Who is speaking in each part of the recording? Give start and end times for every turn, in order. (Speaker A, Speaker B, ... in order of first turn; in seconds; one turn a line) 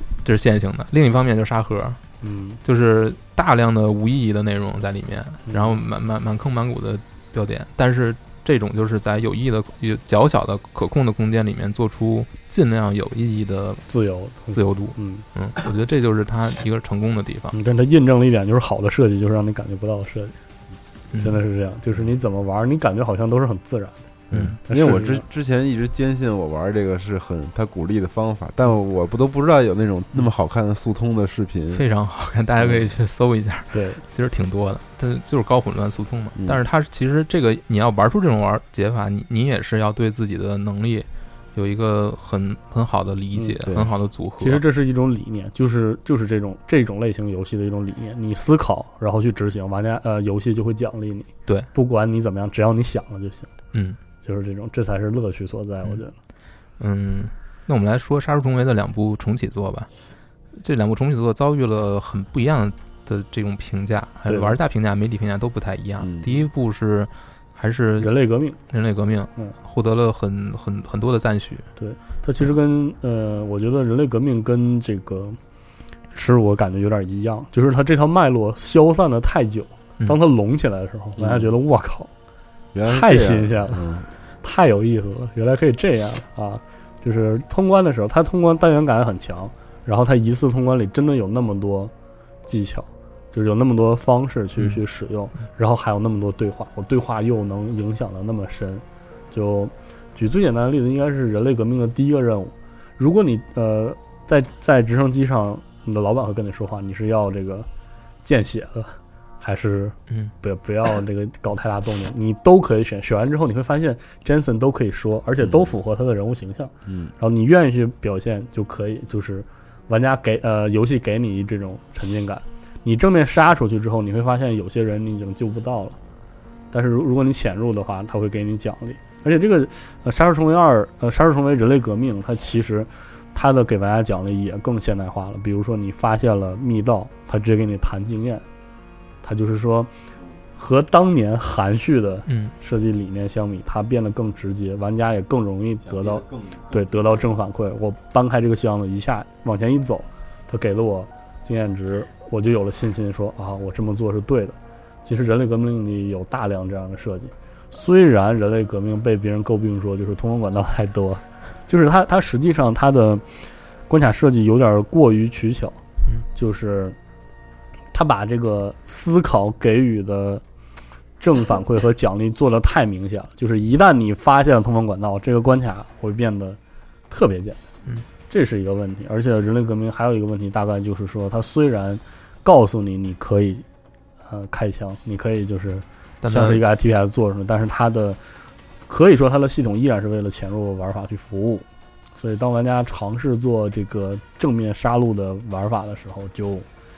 Speaker A: 0.2-2.0
Speaker B: 2.2-2.6
Speaker A: 2.6-13.8
Speaker B: 5.5-5.8
Speaker B: 13.9-15.2
Speaker A: 14.5-17.6
Speaker B: 17.5-20.4
Speaker A: 21.1-21.4
Speaker B: 21.2-24.1
Speaker A: 24.3-24.6
Speaker C: 24.3-31.8
Speaker B: 24.7-25.2
Speaker A: 31.7-44.6
Speaker B: 33.7-34.0
Speaker B: 44.4-53.5
Speaker B: 54.2-56.1
Speaker A: 56.8-59.9
Speaker A: 60.5-68.1
Speaker B: 64.3-64.5
Speaker C: 66.0-66.5
Speaker B: 68.0-68.6
Speaker A: 68.7-71.7
Speaker B: 71.8-75.4
Speaker B: 76.1-82.1
Speaker C: 81.2-81.5
Speaker C: 82.7-84.1
Speaker B: 82.8-83.8
Speaker B: 84.4-91.9
Speaker B: 92.5-107.7
Speaker B: 108.2-126.0
Speaker C: 115.4-115.7
Speaker C: 116.9-117.1
Speaker B: 126.7-138.4
Speaker B: 139.2-139.9
Speaker B: 140.6-165.8
Speaker A: 142.3-142.5
Speaker C: 145.8-146.8
Speaker B: 166.3-166.9
Speaker B: 167.9-170.4
Speaker B: 171.2-176.6
Speaker B: 177.1-177.6
Speaker B: 178.3-183.6
Speaker B: 184.2-188.2
Speaker A: 186.2-186.6
Speaker B: 188.9-196.7